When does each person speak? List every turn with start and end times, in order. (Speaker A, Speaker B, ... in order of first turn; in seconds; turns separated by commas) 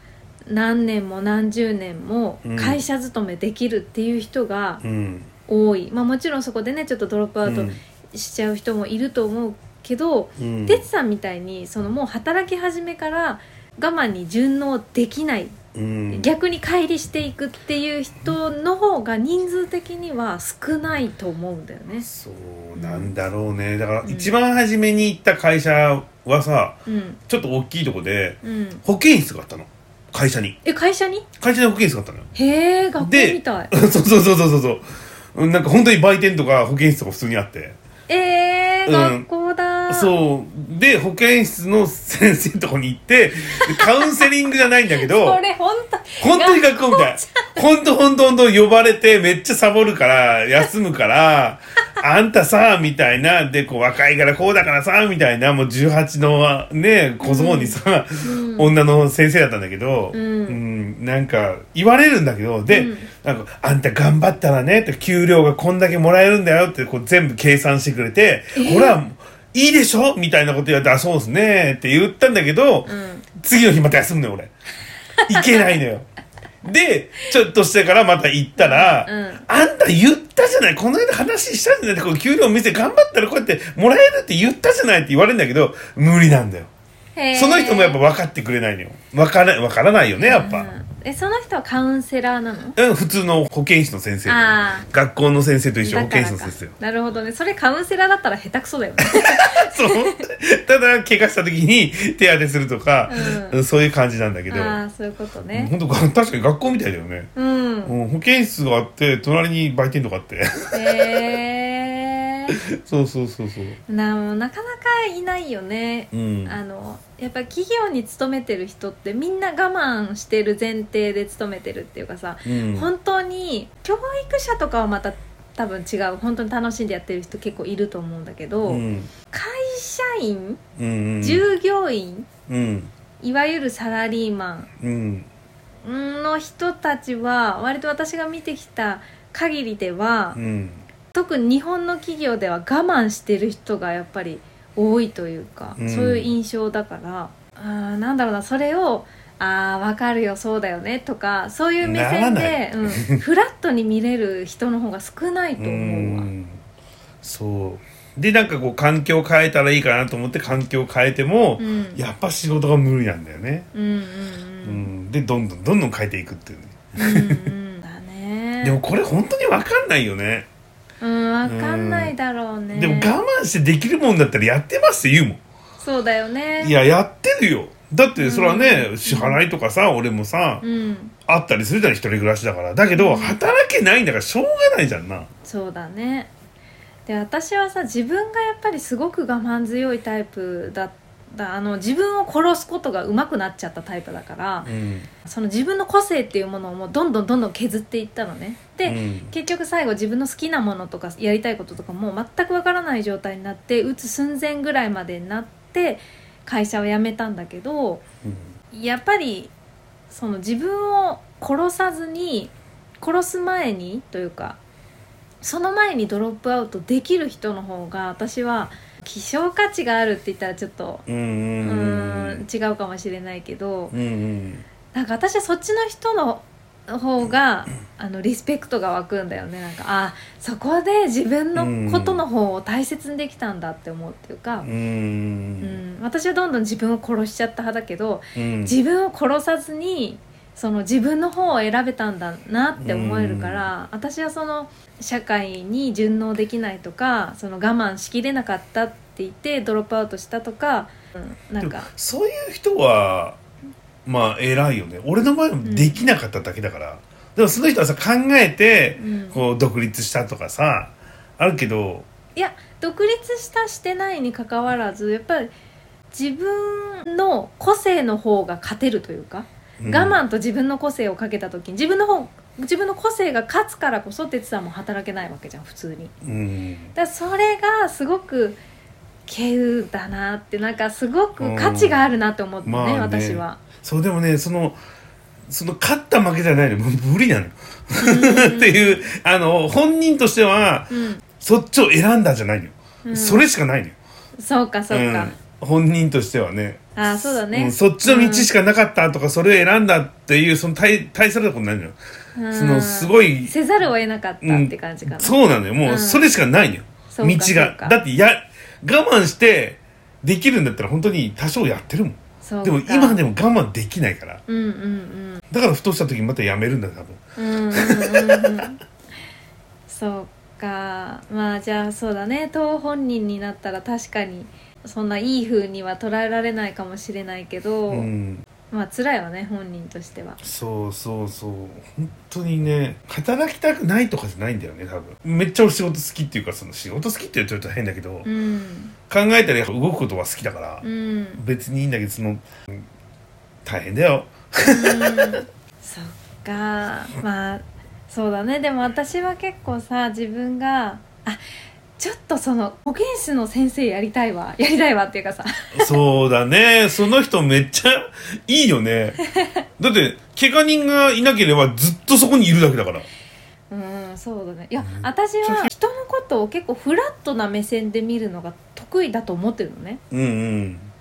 Speaker A: 0.5-4.8, Speaker B: 2.4-2.8, Speaker B: 4.8-5.3, Speaker A: 5.5-15.6, Speaker B: 7.5-7.8, Speaker B: 10.4-10.9, Speaker B: 15.7-16.3, Speaker A: 16.1-22.1, Speaker B: 22.0-30.6, Speaker A: 22.8-23.1, Speaker A: 24.0-24.3, Speaker A: 26.9-27.2, Speaker A: 28.4-28.8, Speaker A: 30.6-31.3, Speaker B: 31.4-32.3, Speaker A: 32.4-33.8, Speaker B: 33.0-37.8, Speaker A: 38.1-40.1, Speaker B: 38.9-39.3, Speaker B: 39.9-45.4, Speaker A: 43.6-44.3, Speaker A: 45.0-47.6, Speaker B: 46.2-74.5, Speaker A: 57.2-58.7, Speaker A: 60.1-60.6, Speaker A: 62.7-63.1, Speaker A: 68.5-69.0, Speaker A: 72.9-73.2, Speaker A: 75.2-75.7, Speaker B: 75.2-76.1, Speaker B: 76.6-86.7, Speaker A: 78.6-79.5, Speaker A: 87.2-88.0, Speaker B: 87.3-90.7, Speaker A: 90.2-92.8, Speaker B: 92.8-96.7, Speaker A: 94.3-94.9, Speaker A: 95.8-100.2, Speaker B: 99.1-104.8, Speaker A: 103.1-103.6, Speaker A: 104.5-105.7, Speaker B: 105.5-107.3, Speaker A: 107.4-108.0, Speaker B: 107.8-111.3, Speaker A: 110.7-112.6, Speaker B: 112.5-113.8, Speaker A: 113.9-130.6, Speaker B: 116.1-116.6, Speaker B: 122.5-122.9, Speaker B: 128.7-129.1, Speaker B: 130.8-131.4, Speaker A: 131.2-132.3, Speaker B: 132.5-132.9, Speaker A: 133.2-134.7, Speaker B: 134.8-135.3, Speaker A: 135.8-140.4, Speaker B: 140.3-140.8, Speaker A: 141.1-156.3, Speaker B: 145.8-146.3, Speaker B: 151.8-153.2, Speaker B: 155.6-156.6, Speaker B: 157.2-163.7, Speaker A: 161.6-162.0, Speaker A: 163.7-164.9, Speaker B: 164.6-167.5, Speaker A: 167.0-168.8, Speaker B: 168.6-170.5, Speaker A: 171.0-173.2, Speaker B: 171.4-172.1, Speaker B: 172.7-175.4, Speaker A: 175.8-176.8, Speaker B: 176.6-180.6, Speaker A: 178.2-179.4, Speaker A: 180.6-181.1, Speaker B: 181.3-185.3, Speaker A: 182.9-183.4, Speaker A: 185.4-186.3, Speaker A: 187.1-194.7, Speaker B: 194.6-195.1, Speaker A: 195.2-208.0, Speaker B: 198.8-199.3, Speaker A: 208.7-209.5, Speaker A: 210.1-214.6, Speaker A: 215.4-221.1, Speaker B: 221.1-222.4, Speaker A: 221.6-223.9, Speaker B: 223.9-224.6, Speaker A: 224.9-234.7, Speaker B: 231.6-232.2, Speaker B: 234.6-235.8, Speaker A: 235.6-251.9, Speaker B: 238.3-238.8, Speaker B: 242.8-243.7, Speaker B: 251.6-253.4, Speaker B: 254.1-262.1, Speaker A: 255.6-256.1, Speaker A: 259.0-259.4, Speaker A: 262.4-265.5, Speaker A: 266.1-276.1, Speaker B: 269.8-270.2, Speaker B: 276.2-276.9, Speaker A: 276.9-278.6, Speaker A: 279.3-283.6, Speaker B: 281.4-282.0, Speaker B: 282.6-284.8, Speaker B: 285.5-293.9, Speaker A: 288.0-289.0, Speaker A: 290.9-291.2, Speaker A: 293.1-293.4, Speaker A: 294.4-295.3, Speaker B: 294.9-302.0, Speaker A: 297.0-298.5, Speaker A: 302.4-306.4, Speaker B: 302.5-303.5, Speaker B: 304.4-314.4, Speaker A: 307.1-308.0, Speaker A: 312.4-313.2, Speaker A: 314.5-315.4, Speaker B: 315.5-317.2, Speaker A: 317.4-318.8, Speaker B: 317.7-318.7, Speaker A: 319.9-328.1, Speaker B: 327.9-328.4, Speaker A: 328.7-330.4, Speaker B: 330.4-338.3, Speaker A: 338.2-338.9, Speaker B: 339.1-340.9, Speaker A: 340.8-341.4, Speaker B: 341.4-342.9, Speaker B: 343.6-345.4, Speaker A: 344.7-351.4, Speaker A: 352.0-355.9, Speaker B: 355.7-359.2, Speaker B: 359.8-363.1, Speaker A: 363.7-370.0, Speaker B: 364.8-365.7, Speaker B: 370.1-370.9